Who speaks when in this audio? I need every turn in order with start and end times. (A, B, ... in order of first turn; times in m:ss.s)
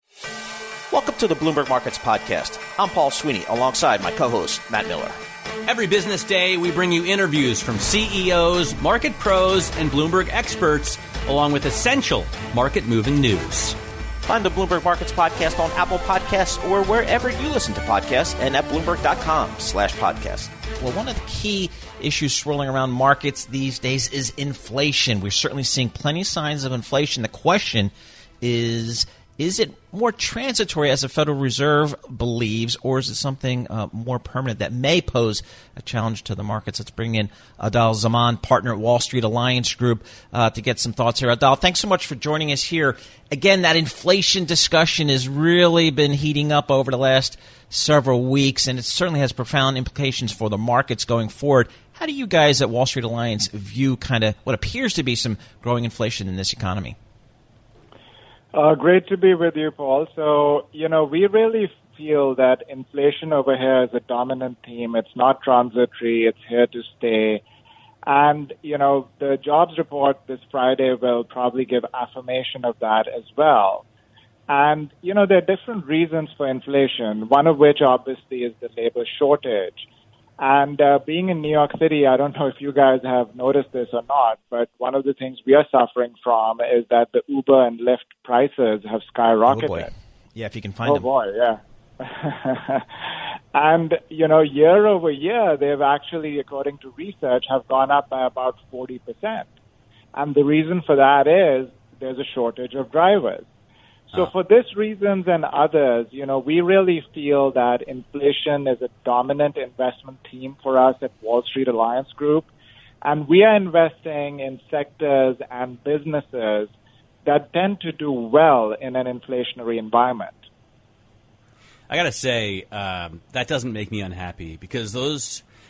0:00.9-0:05.2 A
0:05.6-0:13.8 B
0:14.2-0:57.0 A
0:58.5-1:07.4 C
1:08.0-1:13.8 C
1:14.5-1:19.8 C
1:20.4-1:29.9 C
1:29.5-1:31.0 A
1:30.8-1:32.9 C
1:33.5-1:39.4 C
1:40.1-1:43.4 C
1:44.1-1:52.5 C
1:53.0-1:56.7 C
1:57.2-2:00.4 C
2:01.9-2:05.4 B